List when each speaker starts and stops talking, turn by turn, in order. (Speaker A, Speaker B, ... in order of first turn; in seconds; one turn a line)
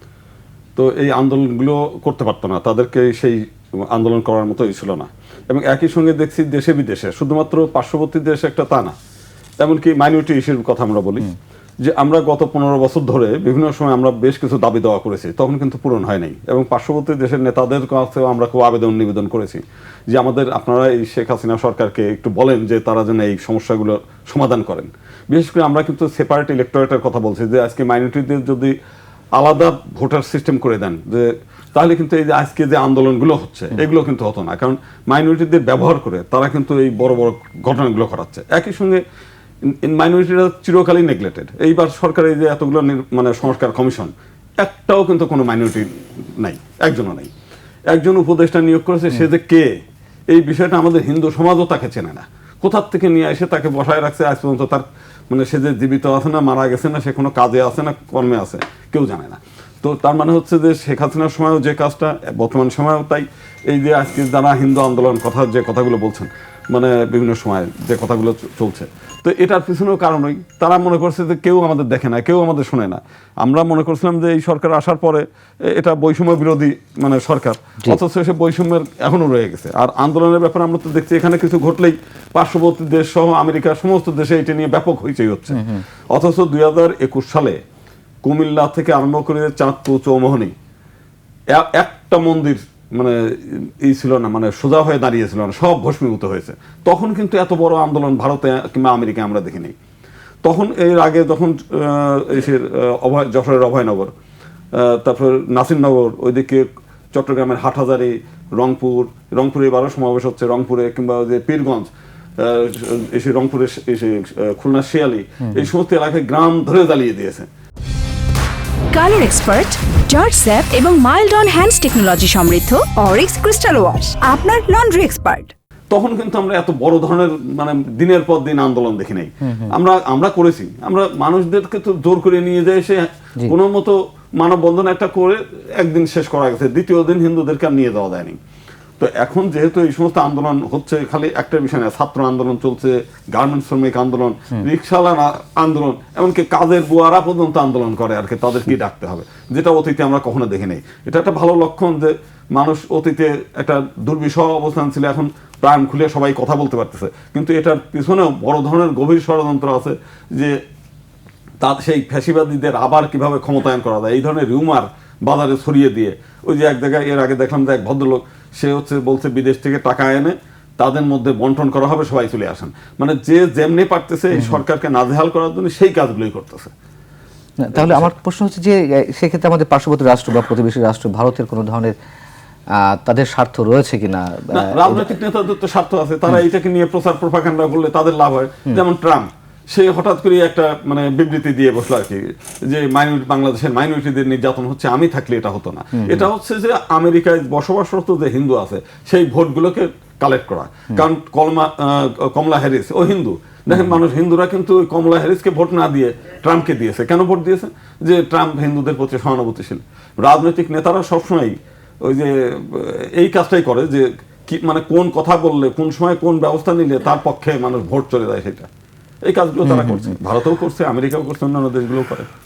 Speaker A: 0.8-8.9
Speaker A: 9.6-28.8
Speaker A: 29.4-39.0
Speaker A: 39.6-47.3
Speaker A: 47.9-49.8
Speaker A: 50.3-87.6
Speaker B: 85.5-85.8
Speaker A: 88.2-90.5
Speaker A: 91.5-99.7
Speaker A: 100.4-104.1
Speaker A: 104.7-117.5
Speaker C: 118.9-125.5
Speaker A: 125.9-138.4
Speaker B: 129.4-129.7
Speaker A: 139.0-160.6
Speaker A: 161.6-176.7
Speaker B: 174.3-174.6
Speaker B: 177.6-181.9
Speaker A: 177.7-178.1
Speaker B: 182.8-185.1
Speaker A: 184.5-218.7
Speaker B: 195.9-196.2
Speaker A: 219.2-222.3
Speaker B: 219.6-220.1